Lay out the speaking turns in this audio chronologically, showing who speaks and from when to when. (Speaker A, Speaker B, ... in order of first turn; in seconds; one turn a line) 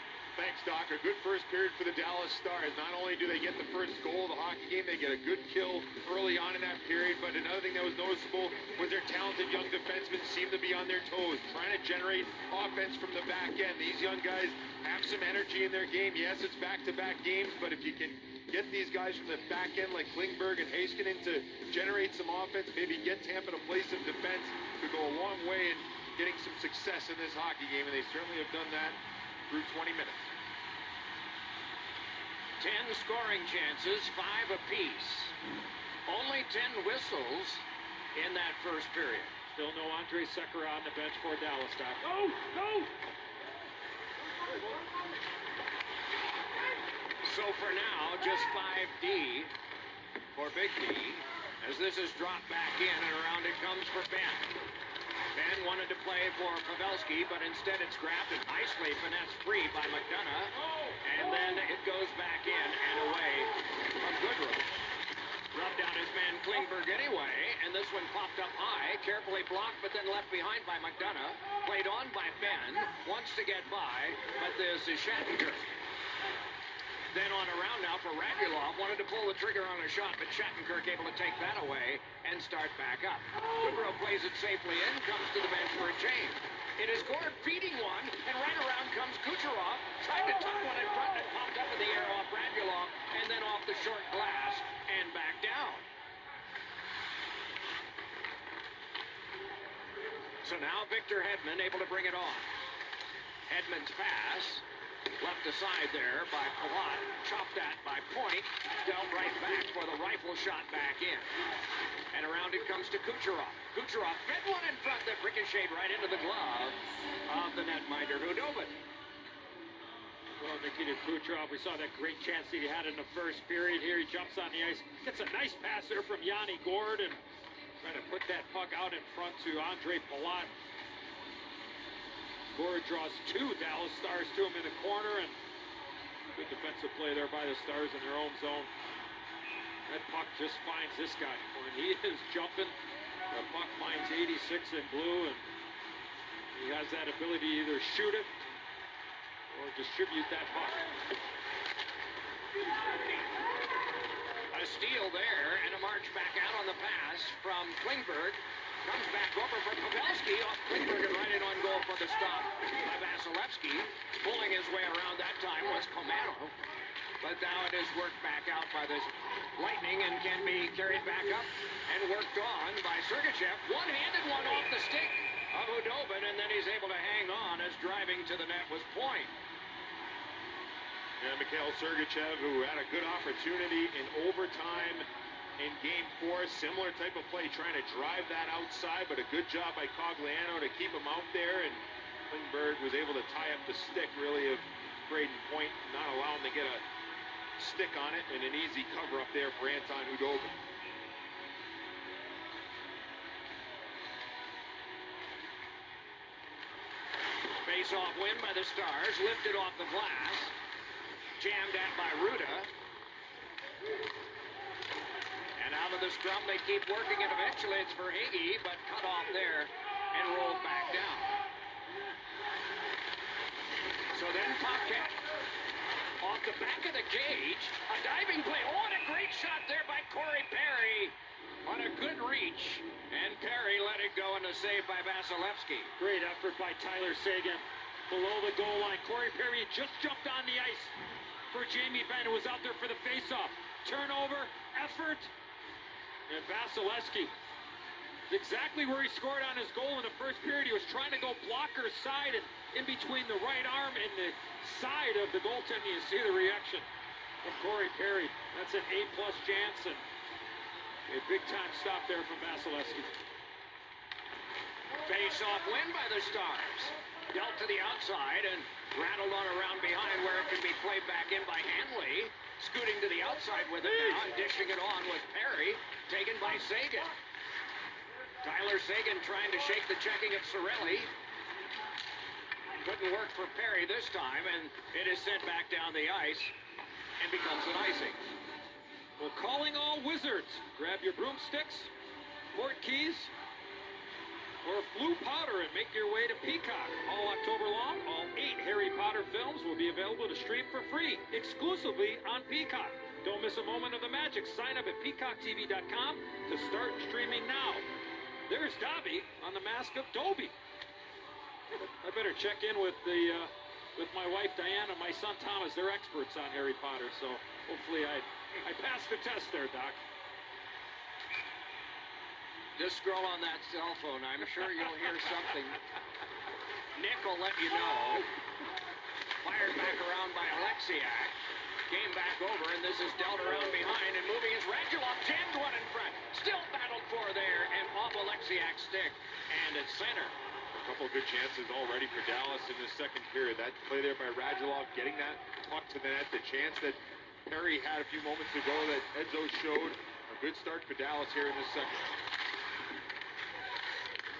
Speaker A: 0.3-30.3
Speaker B: 32.6-35.4
Speaker B: 36.1-39.3
Speaker C: 39.5-42.1
Speaker B: 47.2-49.5
Speaker B: 50.4-54.5
Speaker B: 55.3-64.7
Speaker B: 65.5-75.7
Speaker B: 77.1-95.8
Speaker B: 100.4-102.5
Speaker B: 103.5-104.6
Speaker B: 105.2-111.3
Speaker B: 112.1-118.8
Speaker C: 120.4-127.2
Speaker C: 127.8-130.5
Speaker C: 132.5-135.4
Speaker C: 136.3-138.7
Speaker C: 139.9-142.7
Speaker C: 143.3-145.4
Speaker C: 146.5-148.3
Speaker C: 149.5-150.9
Speaker B: 154.5-166.6
Speaker B: 167.2-179.3
Speaker A: 181.2-185.1
Speaker A: 185.6-196.8
Speaker A: 197.6-200.6
Speaker B: 207.6-210.6
Speaker B: 211.4-212.7
Speaker B: 215.6-221.4
Speaker B: 224.1-225.2
Speaker B: 226.2-235.9
Speaker C: 236.0-241.0
Speaker C: 241.5-245.3
Speaker C: 246.3-247.3
Speaker C: 248.3-256.9
Speaker C: 257.4-260.0
Speaker C: 261.1-263.1
Speaker B: 265.1-277.1
Speaker B: 278.4-281.1
Speaker B: 282.8-286.5
Speaker B: 287.2-288.2
Speaker C: 289.2-291.9
Speaker C: 292.5-293.3
Speaker C: 294.6-307.9
Speaker C: 308.5-310.6
Speaker C: 311.7-320.0
Speaker B: 322.8-325.8
Speaker B: 326.9-328.3
Speaker B: 329.4-331.4
Speaker B: 331.9-340.4
Speaker A: 340.8-352.1